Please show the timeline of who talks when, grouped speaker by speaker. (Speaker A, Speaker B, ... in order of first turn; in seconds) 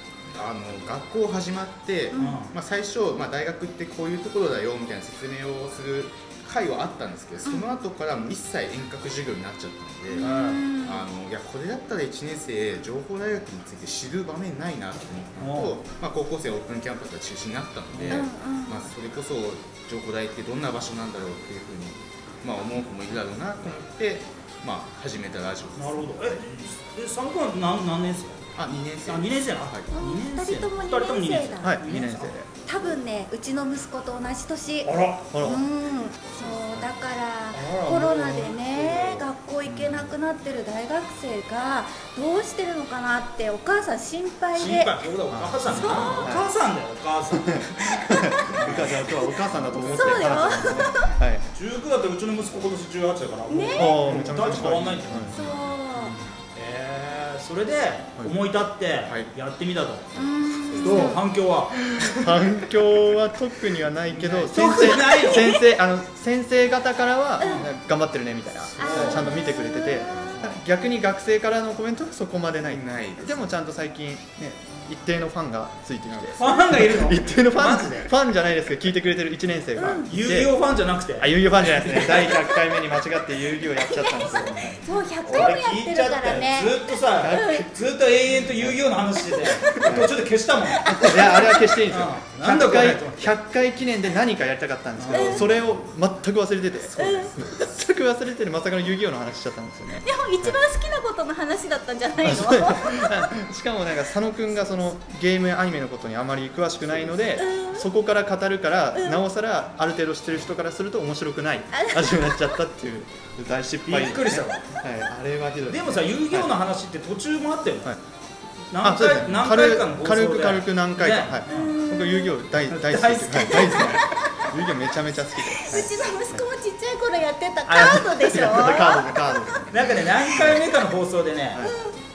Speaker A: 0.3-26.4, 28.6-29.9, 55.3-55.7, 59.0-59.3, 60.5-61.1, 68.8-69.4, 70.1-70.6, 72.7-73.4, 76.1-76.5
Speaker B: 2.1-2.4, 7.5-7.8, 10.2-11.1, 18.1-18.9, 29.9-31.8, 32.7-45.0, 45.7-46.4, 48.1-48.5, 49.8-51.1, 53.5-54.1, 55.3-56.2, 60.1-61.2, 64.5-65.6, 67.4-67.7, 68.8-70.4, 79.8-80.1, 83.8-87.7, 89.3-90.0, 90.7-91.8, 95.1-95.5, 97.0-97.3, 100.0-103.3, 107.4-107.9, 109.0-109.2, 111.7-112.4, 121.5-122.4, 123.5-124.5, 125.5-129.7
Speaker C: 2.1-2.5, 10.2-10.7, 15.4-15.8, 17.9-18.2, 25.8-28.4, 29.1-32.3, 34.9-35.3, 37.5-39.3, 44.5-47.7, 48.5-49.1, 51.5-55.3, 56.5-62.3, 64.1-65.6, 67.4-67.7, 68.8-69.3, 76.4-78.1, 80.0-82.4, 85.2-93.4, 95.0-95.5, 113.9-114.7, 115.7-118.0, 118.7-121.8, 122.7-124.0, 129.7-131.7
Speaker D: 31.6-32.5, 35.3-35.7, 39.7-40.1, 45.3-46.5, 47.3-51.5, 53.8-55.4, 56.0-56.3, 60.8-61.2, 61.8-80.5, 81.2-84.8, 87.2-87.7, 89.8-90.2, 90.9-100.6, 102.2-116.5, 118.8-126.4, 127.7-129.7, 131.5-131.8